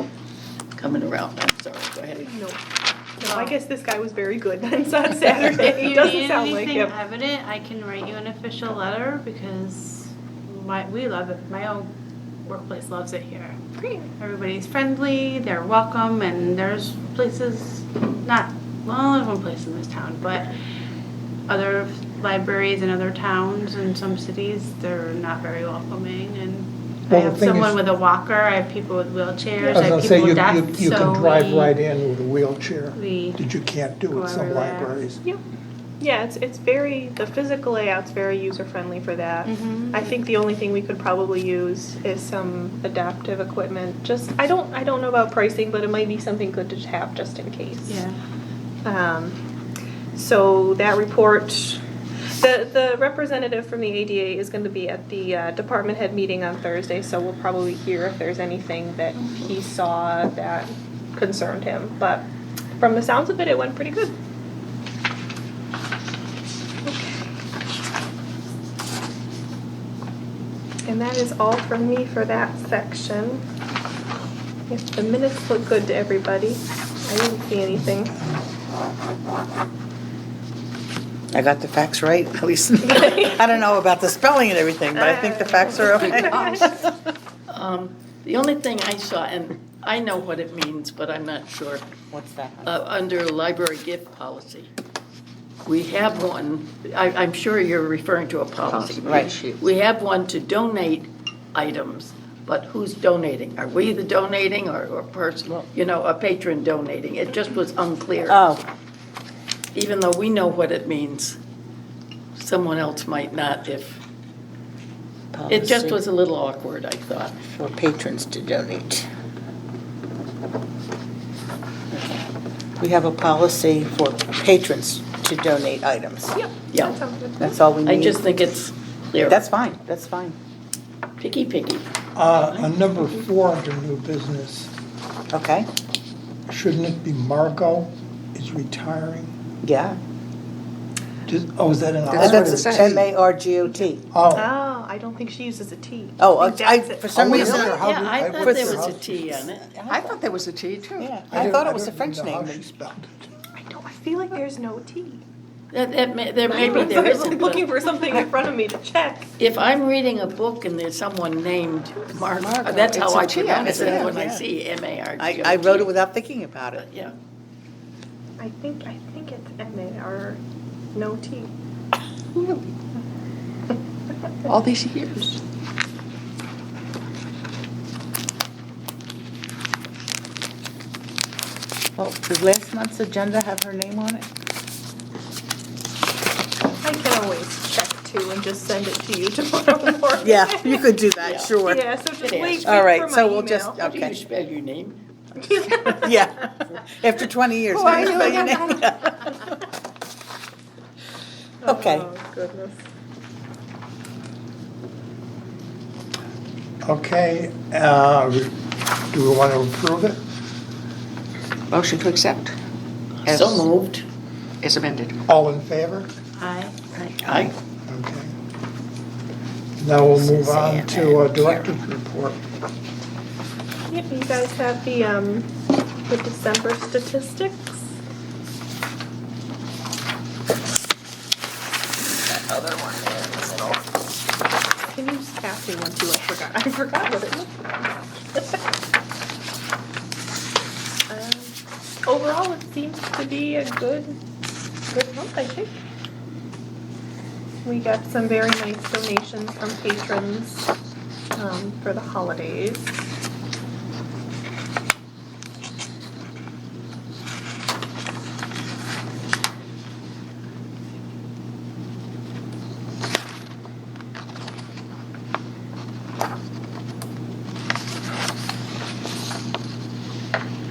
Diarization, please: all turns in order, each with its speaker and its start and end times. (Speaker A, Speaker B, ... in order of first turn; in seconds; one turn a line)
Speaker A: 0.8-2.3
Speaker B: 2.2-2.6
Speaker B: 3.2-7.0
Speaker C: 3.2-3.5
Speaker C: 5.5-11.9
Speaker C: 12.4-13.6
Speaker B: 13.8-14.1
Speaker C: 14.2-20.5
Speaker C: 21.5-31.8
Speaker D: 27.1-27.8
Speaker B: 29.6-30.1
Speaker D: 29.7-35.2
Speaker C: 32.9-33.4
Speaker C: 34.1-35.0
Speaker B: 36.0-48.0
Speaker C: 39.5-40.1
Speaker C: 47.9-48.2
Speaker B: 48.8-49.4
Speaker B: 50.1-62.2
Speaker B: 62.8-64.2
Speaker B: 66.8-67.3
Speaker B: 70.8-73.4
Speaker B: 74.7-78.1
Speaker D: 77.7-78.4
Speaker E: 81.3-86.9
Speaker F: 82.4-83.1
Speaker B: 82.8-83.4
Speaker B: 84.9-86.7
Speaker F: 86.0-86.3
Speaker A: 87.5-91.9
Speaker E: 92.1-92.7
Speaker A: 92.6-94.7
Speaker A: 95.6-108.4
Speaker F: 98.6-99.7
Speaker E: 99.0-99.3
Speaker E: 108.3-108.6
Speaker A: 109.7-111.4
Speaker A: 112.3-114.0
Speaker E: 115.3-116.0
Speaker A: 115.5-117.4
Speaker E: 117.4-119.1
Speaker E: 121.9-122.2
Speaker E: 122.8-126.3
Speaker B: 126.3-127.6
Speaker A: 126.7-127.0
Speaker E: 127.4-128.2
Speaker A: 127.8-129.4
Speaker E: 129.3-130.3
Speaker A: 131.2-132.7
Speaker D: 132.1-134.7
Speaker E: 135.3-135.7
Speaker D: 136.5-139.3
Speaker E: 139.6-140.0
Speaker D: 141.2-143.1
Speaker F: 142.1-143.0
Speaker E: 142.1-144.0
Speaker D: 144.1-144.5
Speaker B: 144.3-147.8
Speaker E: 146.2-147.8
Speaker F: 147.3-147.7
Speaker D: 147.4-149.5
Speaker A: 147.7-149.7
Speaker E: 148.4-148.8
Speaker F: 149.8-151.2
Speaker E: 149.8-150.1
Speaker E: 151.0-152.7
Speaker D: 151.2-153.3
Speaker B: 153.5-155.2
Speaker A: 155.7-157.7
Speaker B: 156.4-159.3
Speaker A: 159.4-165.9
Speaker F: 162.2-164.3
Speaker E: 163.6-164.4
Speaker E: 165.2-166.8
Speaker A: 166.7-167.1
Speaker B: 168.4-170.4
Speaker B: 170.9-171.5
Speaker F: 172.3-172.7
Speaker F: 174.4-175.4
Speaker E: 182.0-184.3
Speaker B: 186.8-190.9
Speaker E: 190.2-191.8
Speaker A: 191.2-191.5
Speaker B: 191.6-193.9
Speaker A: 192.2-192.8
Speaker E: 192.6-194.2
Speaker A: 193.8-195.0
Speaker B: 195.4-196.1
Speaker E: 195.7-199.4
Speaker F: 197.7-198.9
Speaker B: 198.0-198.7
Speaker B: 201.6-202.8
Speaker E: 201.6-202.1
Speaker D: 206.8-208.6
Speaker D: 209.1-210.2
Speaker F: 211.7-212.5
Speaker F: 213.2-213.7
Speaker A: 213.2-214.1
Speaker F: 214.6-215.2
Speaker D: 215.3-216.1
Speaker C: 216.4-216.8
Speaker F: 216.9-217.5
Speaker A: 217.2-217.5
Speaker D: 217.9-218.3
Speaker D: 219.8-222.4
Speaker F: 220.2-221.7
Speaker B: 223.9-225.5
Speaker B: 226.1-227.8
Speaker F: 232.3-233.7
Speaker B: 234.9-238.5
Speaker B: 241.1-241.5
Speaker B: 242.1-244.2
Speaker B: 244.9-245.8
Speaker B: 247.6-250.7
Speaker B: 251.3-252.9